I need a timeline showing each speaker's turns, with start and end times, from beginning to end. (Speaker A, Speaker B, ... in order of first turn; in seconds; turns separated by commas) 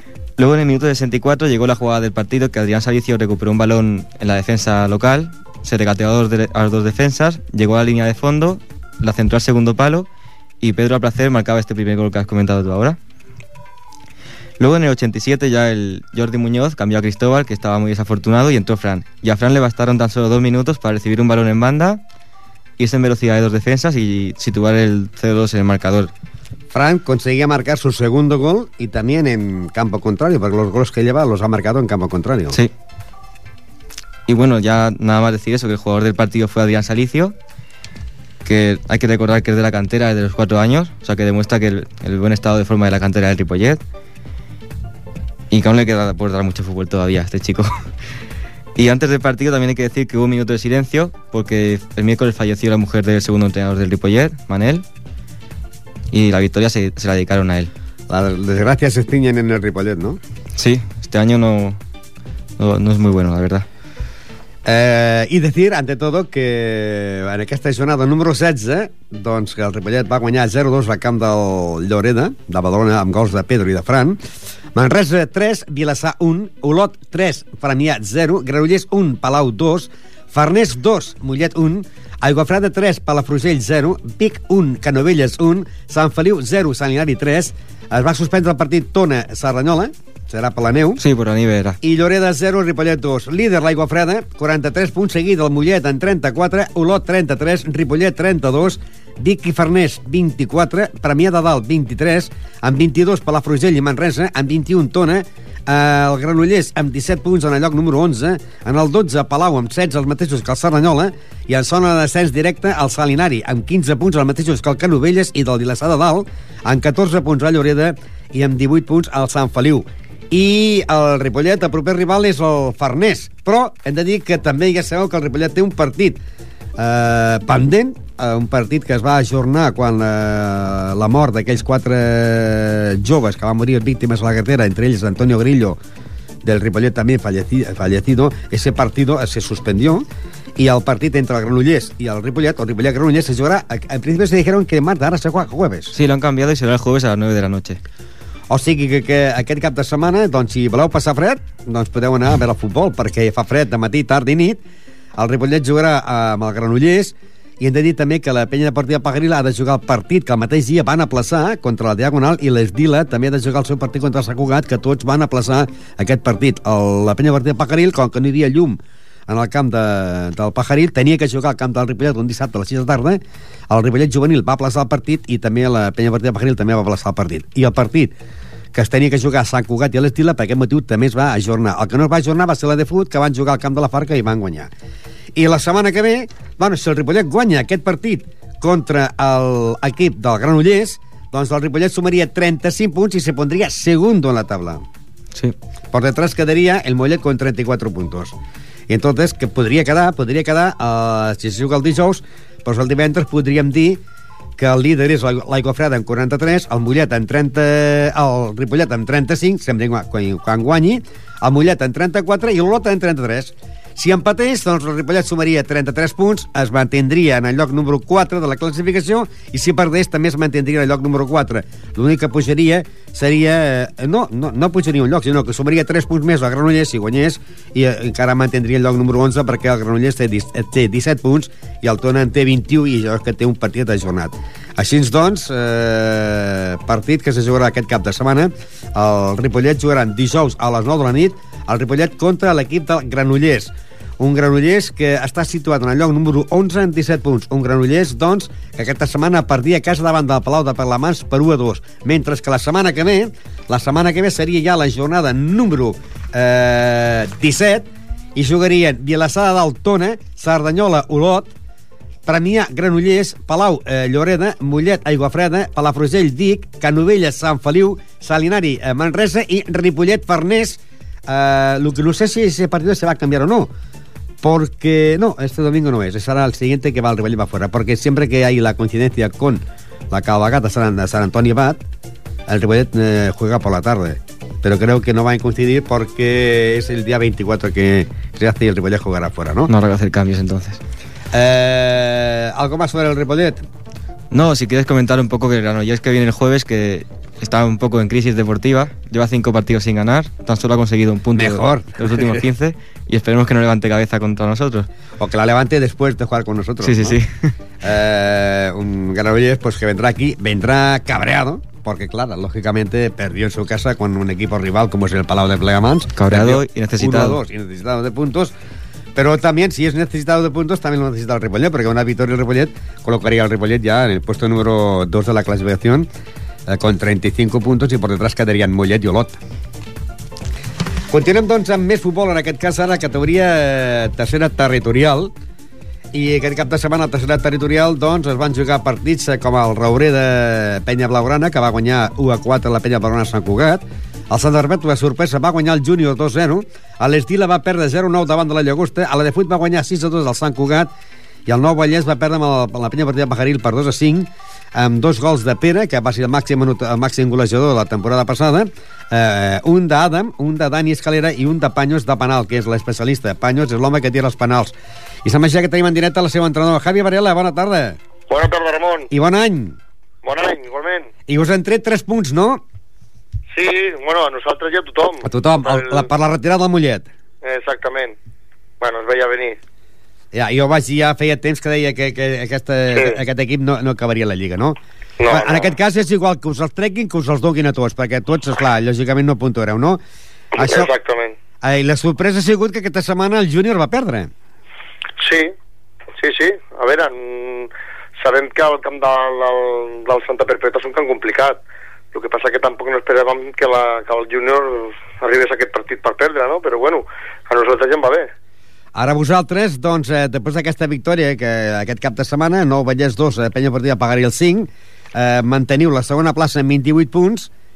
Speaker A: 0.4-10.1, Speaker A: 10.6-13.0, Speaker A: 14.6-22.0, Speaker A: 22.8-26.1, Speaker B: 26.7-32.6, Speaker A: 34.3-37.3, Speaker A: 38.4-43.8, Speaker A: 45.5-47.9, Speaker A: 48.7-54.8, Speaker A: 56.1-57.7, Speaker B: 58.1-60.2, Speaker A: 60.5-61.8, Speaker A: 62.6-63.6, Speaker B: 64.6-74.2, Speaker B: 74.7-91.0, Speaker A: 91.0-91.8, Speaker B: 91.8-126.2, Speaker B: 126.8-135.8, Speaker B: 136.4-145.9, Speaker A: 145.9-147.8, Speaker B: 148.5-154.6, Speaker B: 155.2-178.1, Speaker B: 178.7-184.7, Speaker B: 185.3-194.8, Speaker B: 195.9-198.3, Speaker B: 198.9-204.0, Speaker B: 204.6-261.5, Speaker B: 262.2-273.7, Speaker B: 274.4-281.8, Speaker B: 282.5-289.7, Speaker A: 289.7-290.8, Speaker B: 291.3-293.6, Speaker A: 294.3-304.9, Speaker B: 301.3-302.4, Speaker B: 305.2-307.2, Speaker A: 306.8-307.5, Speaker B: 307.8-318.5, Speaker A: 316.2-317.4, Speaker B: 319.1-326.1, Speaker B: 326.7-329.4, Speaker B: 331.1-335.3, Speaker B: 336.1-350.9, Speaker B: 351.4-368.0, Speaker C: 368.3-369.1, Speaker B: 369.1-369.8, Speaker C: 370.2-371.1, Speaker B: 371.3-372.6, Speaker C: 373.5-376.0, Speaker B: 375.2-377.1, Speaker C: 377.4-378.2, Speaker C: 378.8-379.6, Speaker B: 380.3-390.0, Speaker C: 385.2-385.7, Speaker C: 390.6-391.4, Speaker B: 390.6-390.9, Speaker B: 391.6-394.3, Speaker C: 395.2-395.5, Speaker C: 396.2-401.6, Speaker C: 402.1-408.3, Speaker B: 408.9-417.5